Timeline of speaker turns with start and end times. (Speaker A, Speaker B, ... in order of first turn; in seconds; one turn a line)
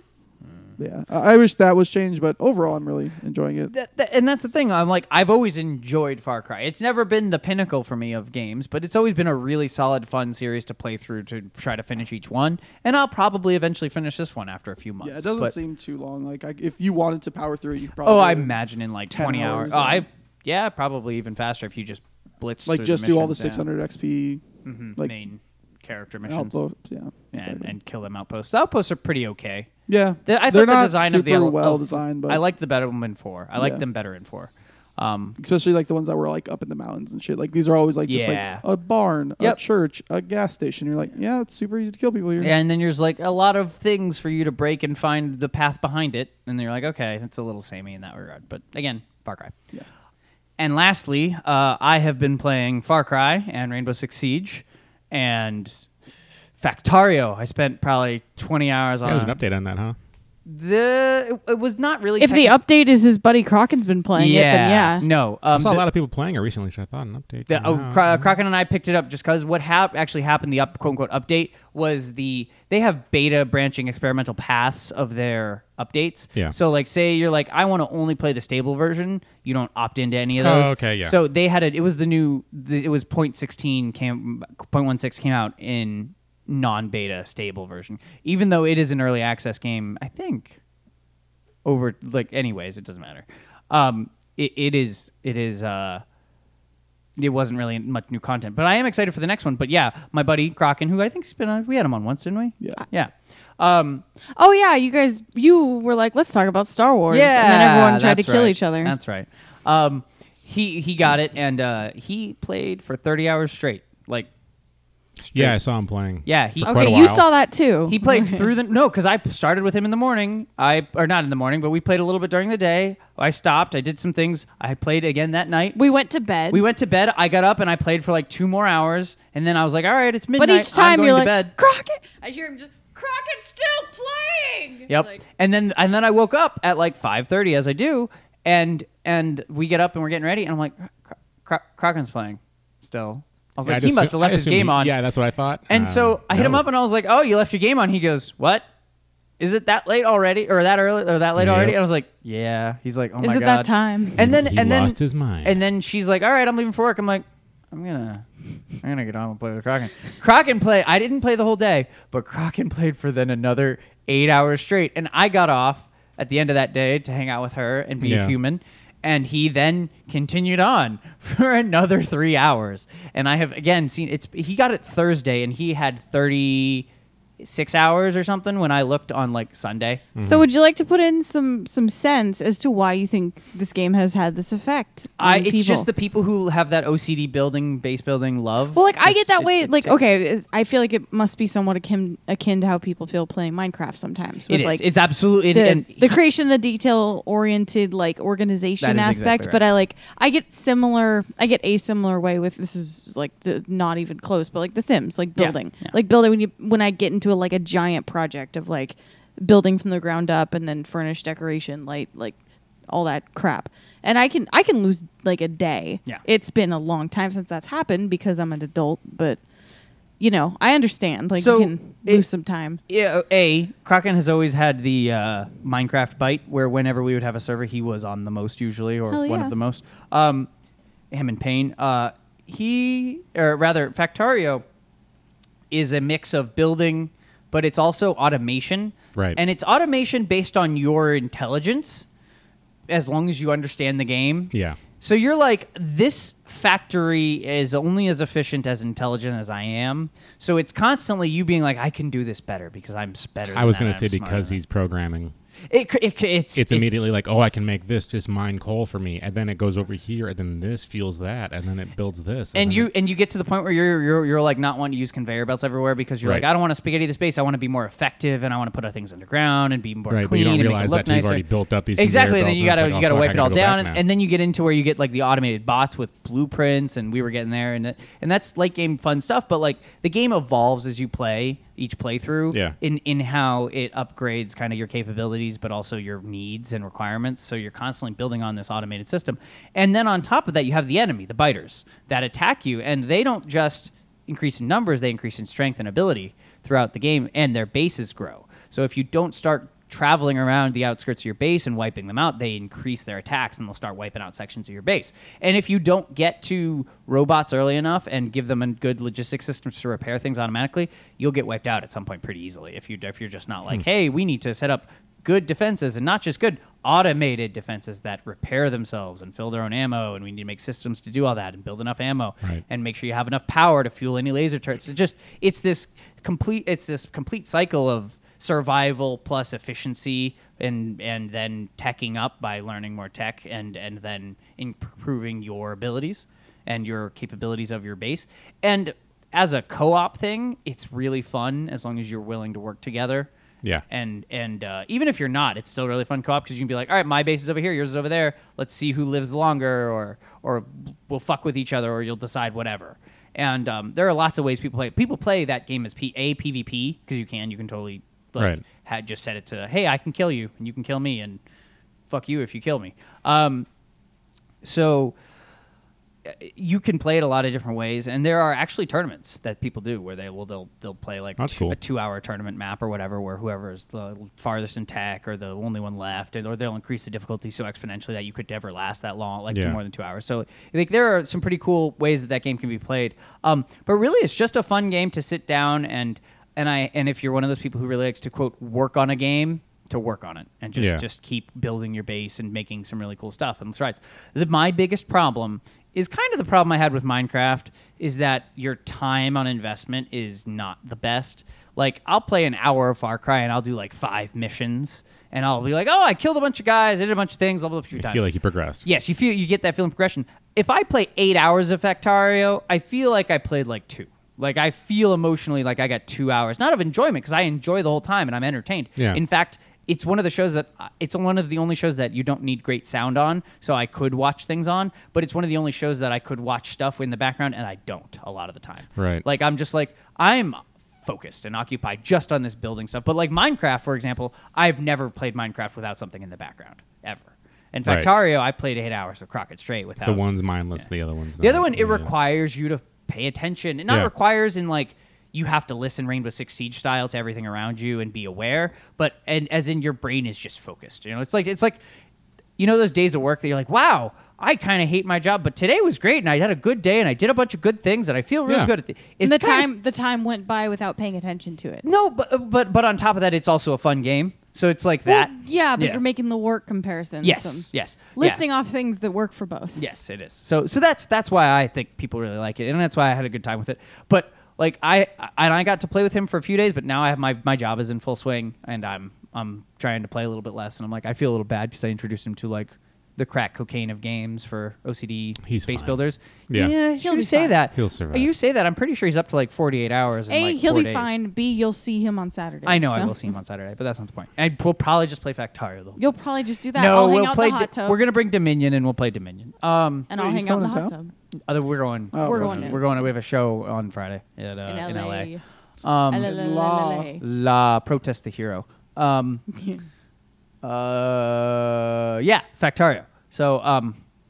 Speaker A: 0.4-0.7
Speaker B: 0.8-3.7
Speaker A: 3.7-15.6
Speaker B: 15.0-18.5
Speaker A: 18.0-23.6
Speaker B: 19.1-20.1
Speaker B: 22.6-24.4
Speaker A: 24.6-26.6
Speaker B: 26.2-27.7
Speaker A: 27.3-29.7
Speaker B: 29.9-32.4
Speaker A: 30.2-35.4
Speaker B: 33.6-33.8
Speaker B: 35.4-42.5
Speaker A: 38.1-38.6
Speaker A: 42.4-49.5
Speaker A: 50.6-55.9
Speaker A: 56.6-59.4
Speaker C: 59.0-60.0
Speaker A: 60.4-62.6
Speaker D: 62.2-65.0
Speaker A: 64.1-65.8
Speaker C: 65.5-68.2
Speaker A: 67.5-90.6
Speaker C: 80.3-81.2
Speaker A: 91.6-96.0
Speaker A: 97.2-104.0
Speaker D: 104.3-108.9
Speaker A: 107.1-114.3
Speaker A: 115.2-115.6
Speaker C: 115.3-117.3
Speaker A: 116.2-117.1
Speaker D: 116.6-118.5
Speaker A: 117.8-125.8
Speaker D: 125.7-126.6
Speaker A: 126.5-131.6
Speaker D: 130.4-135.2
Speaker A: 134.9-144.9
Speaker C: 143.6-146.6
Speaker A: 145.7-148.6
Speaker A: 149.4-158.2
Speaker C: 151.4-151.8
Speaker D: 153.2-154.2
Speaker C: 154.2-155.6
Speaker A: 158.8-176.9
Speaker C: 168.0-168.3
Speaker A: 177.4-180.0
Speaker C: 180.2-180.4
Speaker D: 180.2-185.9
Speaker A: 185.2-190.0
Speaker D: 188.7-194.9
Speaker A: 194.5-196.2
Speaker D: 195.5-212.3
Speaker A: 198.8-199.6
Speaker A: 205.4-205.9
Speaker D: 212.9-219.4
Speaker D: 220.2-222.8
Speaker A: 221.3-222.2
Speaker A: 222.9-230.5
Speaker D: 229.1-229.5
Speaker A: 231.1-234.6
Speaker A: 235.7-242.1
Speaker A: 242.9-254.6
Speaker C: 244.5-244.8
Speaker C: 253.5-255.3
Speaker A: 255.7-257.0
Speaker C: 256.6-262.9
Speaker A: 262.5-271.4
Speaker C: 270.1-274.0
Speaker A: 272.0-343.3
Speaker A: 343.9-361.4
Speaker C: 358.4-358.6
Speaker A: 362.1-363.7
Speaker A: 364.6-365.1
Speaker A: 366.2-408.2
Speaker C: 371.4-371.8
Speaker C: 379.5-379.8
Speaker C: 390.8-391.0
Speaker C: 407.9-408.8
Speaker A: 408.8-440.2
Speaker C: 429.0-429.2
Speaker C: 440.0-442.1
Speaker A: 441.4-451.8
Speaker A: 452.6-459.7
Speaker C: 458.5-458.7
Speaker D: 459.2-461.9
Speaker A: 461.8-466.0
Speaker D: 465.1-469.8
Speaker A: 467.2-468.4
Speaker A: 469.8-491.1
Speaker C: 485.4-486.0
Speaker C: 486.5-486.7
Speaker D: 487.0-487.6
Speaker C: 487.7-488.3
Speaker D: 490.3-493.2
Speaker A: 492.6-496.1
Speaker D: 496.0-498.0
Speaker A: 496.7-500.1
Speaker D: 500.1-501.1
Speaker B: 500.1-500.9
Speaker A: 501.5-505.3
Speaker B: 502.1-502.8
Speaker D: 502.2-502.8
Speaker D: 504.6-505.4
Speaker A: 505.8-506.3
Speaker D: 506.1-507.2
Speaker B: 506.2-507.1
Speaker A: 507.2-509.4
Speaker D: 509.5-509.8
Speaker A: 510.6-514.0